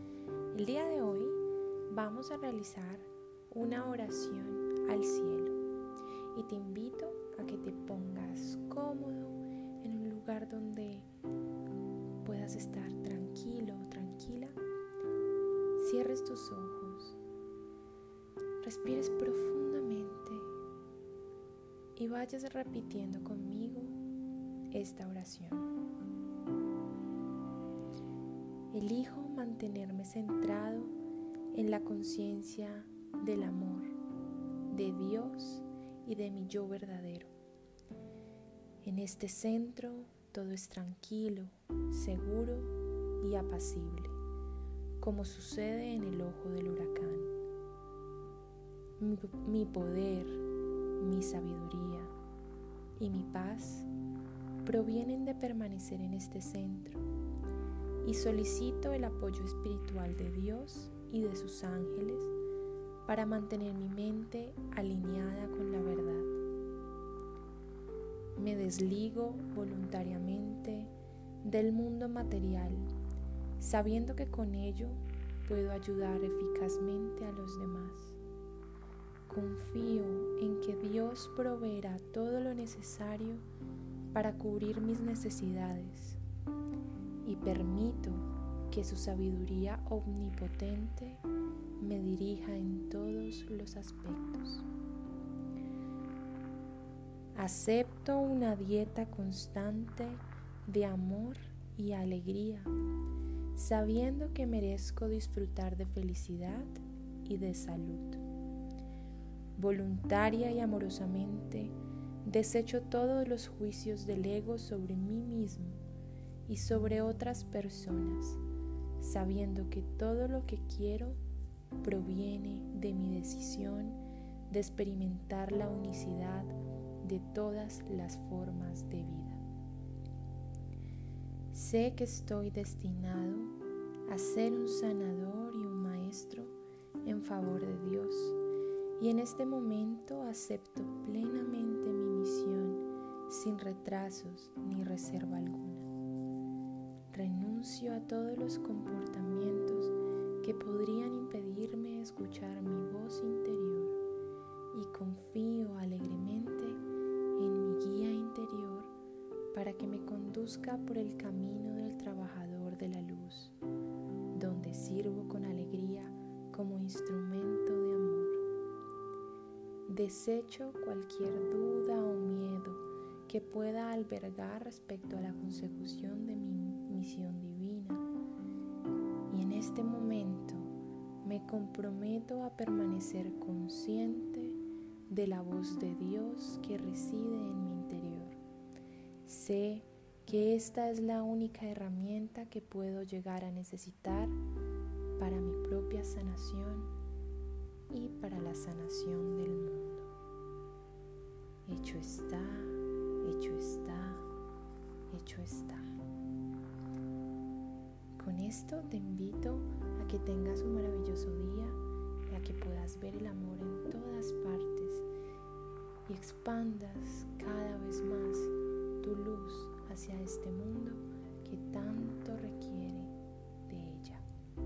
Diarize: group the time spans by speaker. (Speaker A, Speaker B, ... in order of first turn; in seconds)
Speaker A: 0.5-5.6, 6.3-11.1, 12.2-14.6, 15.8-17.2, 18.6-20.5, 21.9-24.0, 24.7-25.7, 28.7-30.9, 31.5-34.0, 34.7-37.3, 38.8-44.2, 45.0-47.3, 49.0-50.4, 51.0-52.1, 53.0-53.9, 54.6-57.0, 58.0-62.3, 63.0-66.4, 68.4-72.9, 73.6-78.2, 79.3-83.4, 84.1-86.2, 87.2-91.2, 91.8-94.7, 97.3-102.7, 103.5-108.2, 109.6-115.8, 116.5-118.4, 119.0-121.2, 121.8-129.4, 131.5-138.4, 139.0-145.9, 147.1-154.0, 154.7-156.8, 157.3-158.9, 159.5-163.6, 164.3-168.4, 169.9-178.1, 179.3-188.4, 189.2-194.4, 195.2-196.9, 197.9-200.1, 201.7-204.3, 205.1-205.9, 208.2-215.1, 216.1-224.2